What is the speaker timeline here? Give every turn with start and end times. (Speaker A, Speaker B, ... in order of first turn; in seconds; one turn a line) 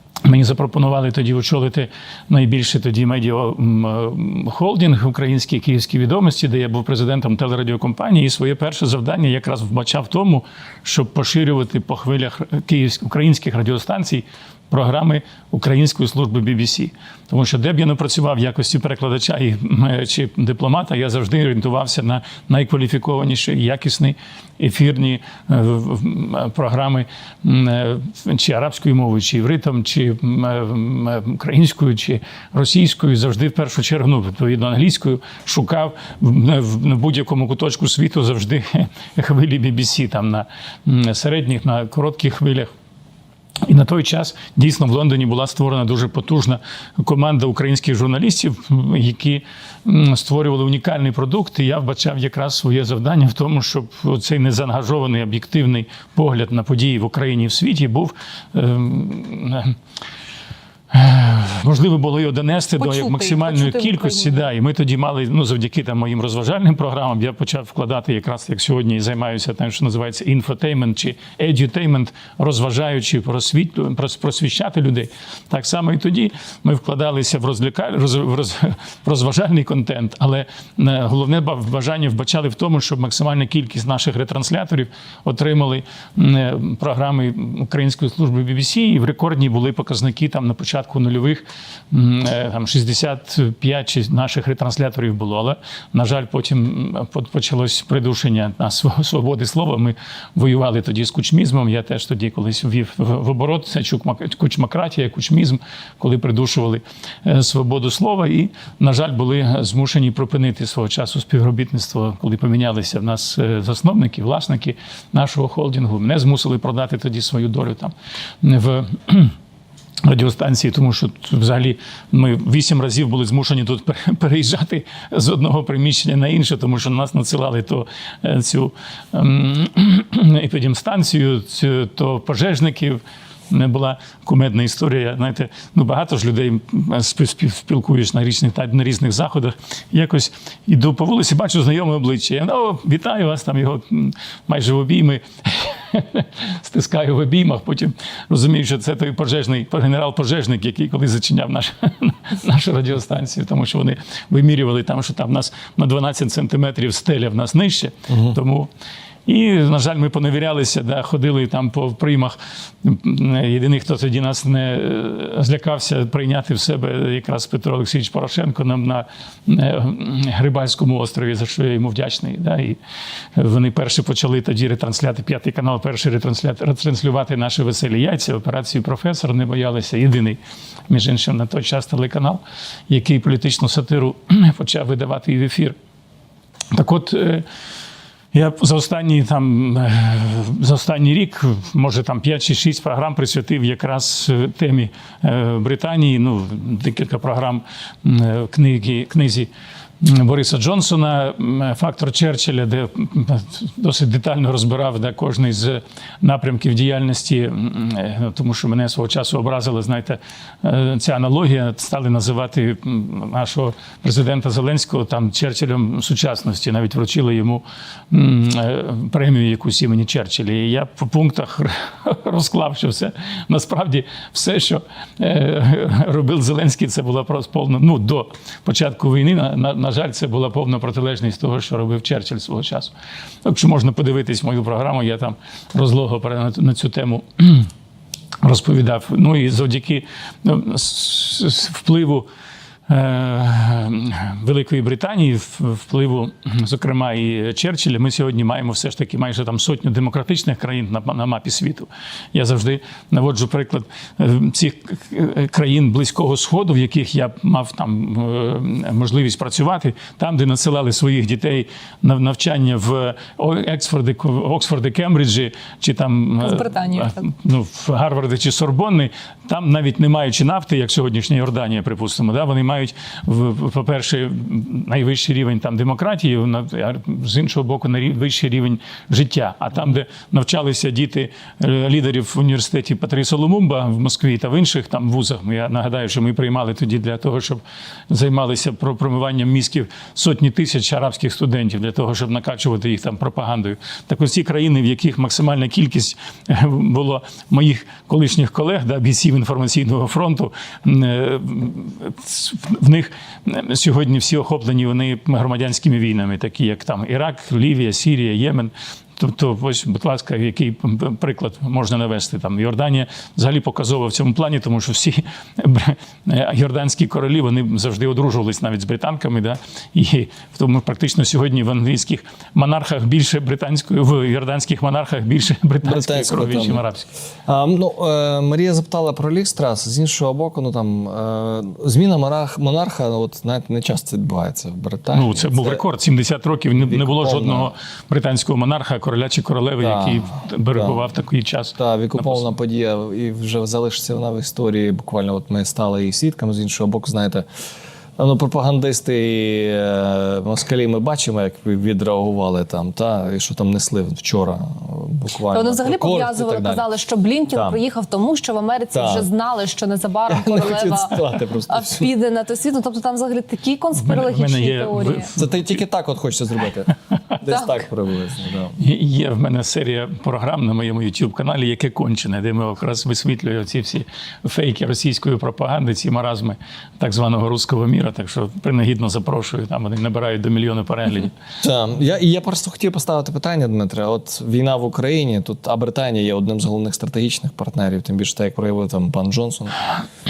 Speaker A: 0.2-42.7
Speaker A: 43.6-59.7
Speaker A: 60.9-119.3
Speaker B: 62.8-64.5
Speaker A: 120.0-158.7
Speaker C: 158.1-158.4
Speaker A: 159.3-172.8
Speaker A: 173.3-185.8
Speaker A: 186.7-187.4
Speaker A: 188.3-199.5
Speaker A: 200.0-232.9
Speaker A: 233.4-237.7
Speaker A: 238.4-242.3
Speaker A: 242.9-327.1
Speaker B: 266.4-267.3
Speaker C: 325.8-326.8
Speaker C: 327.4-335.8
Speaker A: 335.1-342.5
Speaker C: 336.8-337.7
Speaker C: 339.8-341.0
Speaker C: 341.8-347.4
Speaker C: 348.2-356.9
Speaker B: 355.5-365.3
Speaker C: 357.5-357.8
Speaker C: 358.9-359.3
Speaker C: 360.3-362.1
Speaker A: 363.9-365.5
Speaker C: 365.3-368.7
Speaker B: 367.4-367.8
Speaker A: 368.8-381.3
Speaker C: 381.6-389.8